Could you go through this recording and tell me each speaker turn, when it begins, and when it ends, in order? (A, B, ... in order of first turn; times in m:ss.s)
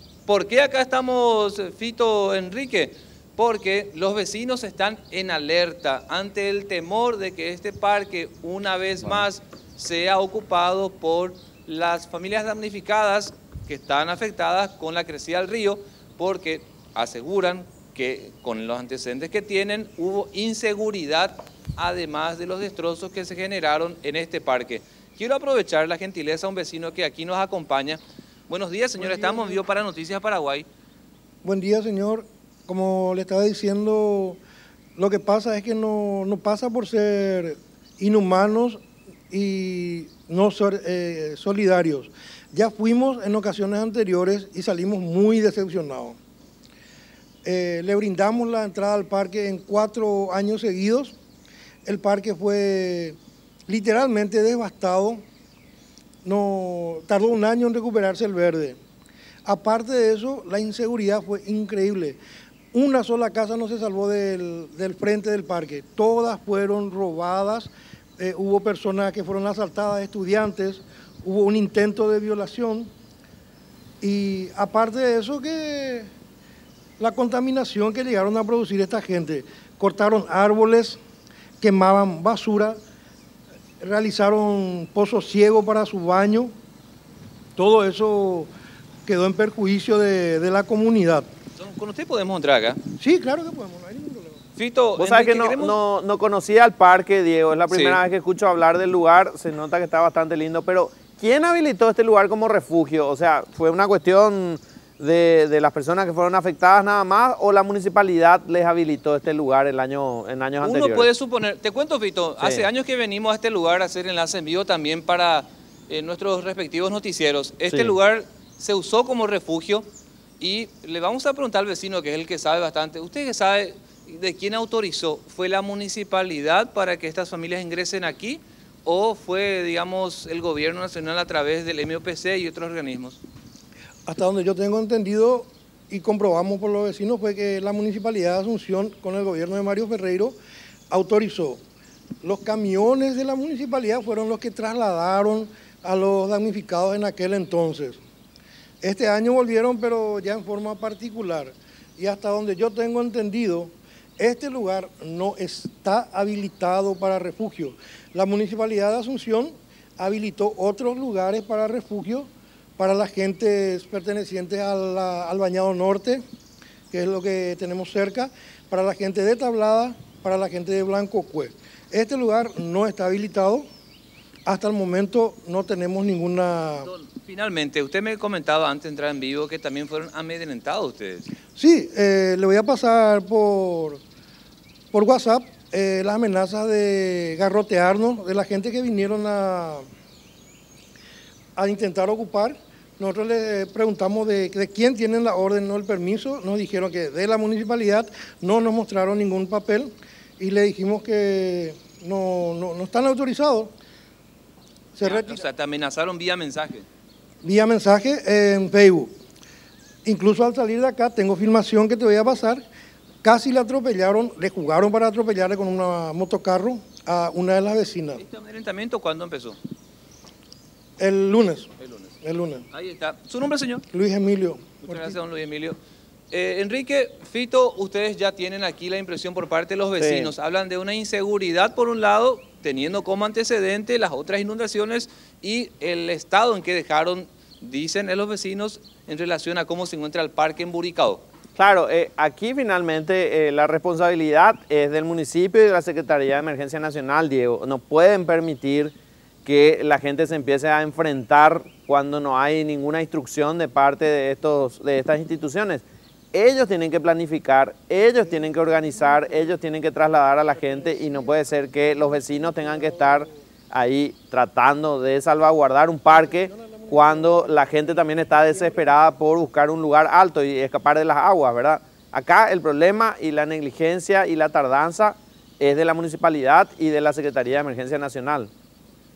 0:00.3-0:30.6 A
0:29.0-0:29.6 B
0:31.4-0:34.4 B
0:35.0-0:46.2 B
0:47.4-0:51.2 B
0:51.8-0:53.2 B
0:53.7-0:55.2 B
0:56.2-0:58.8 B
0:59.4-1:02.2 B
1:02.7-1:12.9 B
1:14.0-1:16.1 B
1:17.0-1:21.0 B
1:21.6-1:22.8 B
1:23.8-1:26.5 B
1:27.6-1:28.5 B
1:29.0-1:31.3 B
1:31.6-1:32.8 A
1:33.0-1:34.4 B
1:34.6-1:35.8 A
1:35.0-1:51.1 C
1:37.7-1:38.0 A
1:50.6-1:59.8 A
1:57.7-1:57.9 C
2:00.4-2:13.2 A
2:14.0-2:20.4 B
2:20.9-2:21.6 B
2:22.2-2:28.0 B
2:28.8-2:46.2 B
2:46.9-2:53.7 B
2:54.4-2:56.9 B
2:56.8-3:01.3 A
3:01.6-3:04.0 B
3:04.9-3:09.9 B
3:11.6-3:23.7 B
3:25.0-3:25.4 B
3:25.0-3:26.8 A
3:27.4-3:29.1 B
3:30.0-3:32.6 B
3:33.2-3:38.2 B
3:38.2-3:39.6 A
3:41.0-3:42.6 B
3:41.8-3:42.2 A
3:42.7-3:43.8 A
3:43.9-3:45.1 B
3:44.8-3:45.8 A
3:46.3-4:01.2 A
3:50.0-3:50.3 C
4:01.6-4:08.9 C
4:09.4-4:38.5 C
4:18.9-4:19.4 B
4:20.8-4:21.3 B
4:22.0-4:23.4 B
4:26.1-4:29.0 B